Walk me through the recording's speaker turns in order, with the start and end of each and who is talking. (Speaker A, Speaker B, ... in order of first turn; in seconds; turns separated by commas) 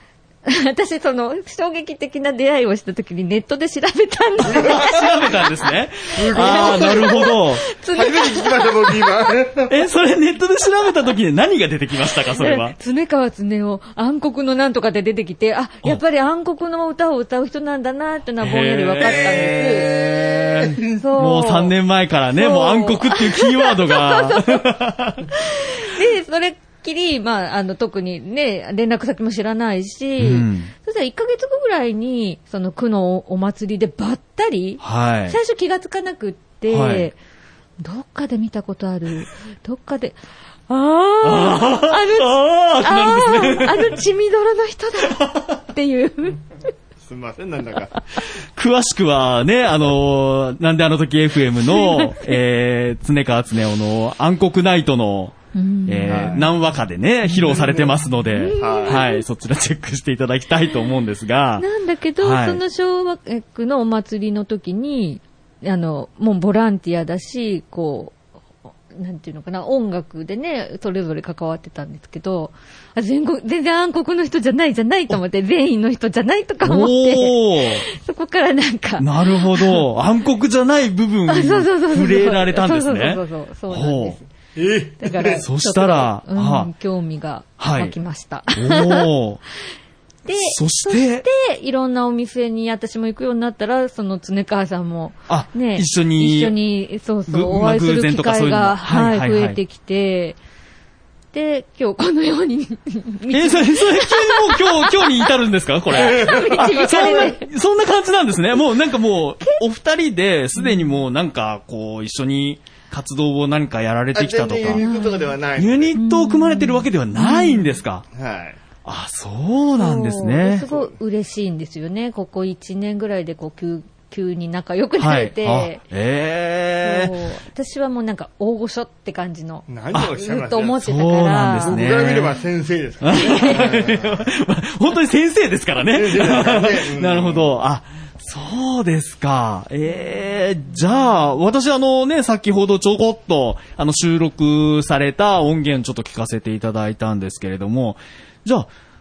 Speaker A: 0.5-5.7, Speaker B: 4.4-7.6, Speaker C: 4.4-5.1, Speaker C: 6.1-7.3, Speaker A: 6.3-9.1, Speaker C: 7.9-9.8, Speaker B: 9.7-12.8, Speaker A: 12.4-19.9, Speaker B: 18.4-25.3, Speaker C: 19.2-20.9, Speaker A: 21.0-21.7, Speaker A: 22.3-24.7, Speaker A: 25.3-37.2, Speaker B: 30.2-30.7, Speaker B: 34.8-35.4, Speaker B: 36.7-37.1, Speaker A: 37.8-40.2, Speaker A: 40.7-46.4, Speaker B: 41.2-44.0, Speaker B: 45.1-45.4, Speaker C: 47.0-47.9, Speaker B: 48.5-55.3, Speaker A: 51.6-52.3, Speaker A: 55.5-56.5, Speaker B: 55.9-61.6, Speaker C: 56.1-56.5, Speaker C: 57.3-59.0, Speaker A: 58.3-59.2, Speaker A: 61.6-68.2, Speaker B: 62.2-62.6, Speaker A: 68.9-79.8, Speaker B: 76.6-77.8, Speaker B: 79.0-84.2, Speaker A: 81.3-84.2, Speaker C: 84.5-85.5, Speaker A: 85.0-89.1, Speaker B: 85.4-86.7, Speaker B: 87.6-87.9, Speaker B: 88.5-89.4, Speaker A: 90.2-100.4, Speaker B: 90.3-91.2, Speaker B: 95.3-96.5, Speaker B: 97.3-99.6, Speaker A: 101.3-105.3, Speaker B: 103.3-114.8, Speaker A: 105.9-107.5, Speaker C: 105.9-107.3, Speaker A: 110.5-111.0, Speaker C: 114.1-116.0, Speaker A: 114.8-115.3, Speaker B: 115.5-118.0, Speaker A: 115.9-117.8, Speaker C: 118.1-118.6, Speaker B: 118.8-120.7, Speaker A: 119.8-125.8, Speaker C: 120.6-120.9, Speaker B: 125.0-127.2, Speaker A: 126.8-131.9, Speaker C: 129.7-130.8, Speaker B: 129.9-130.2, Speaker B: 130.8-132.4, Speaker C: 131.6-134.3, Speaker B: 133.0-148.7, Speaker A: 133.1-133.7, Speaker C: 135.9-137.5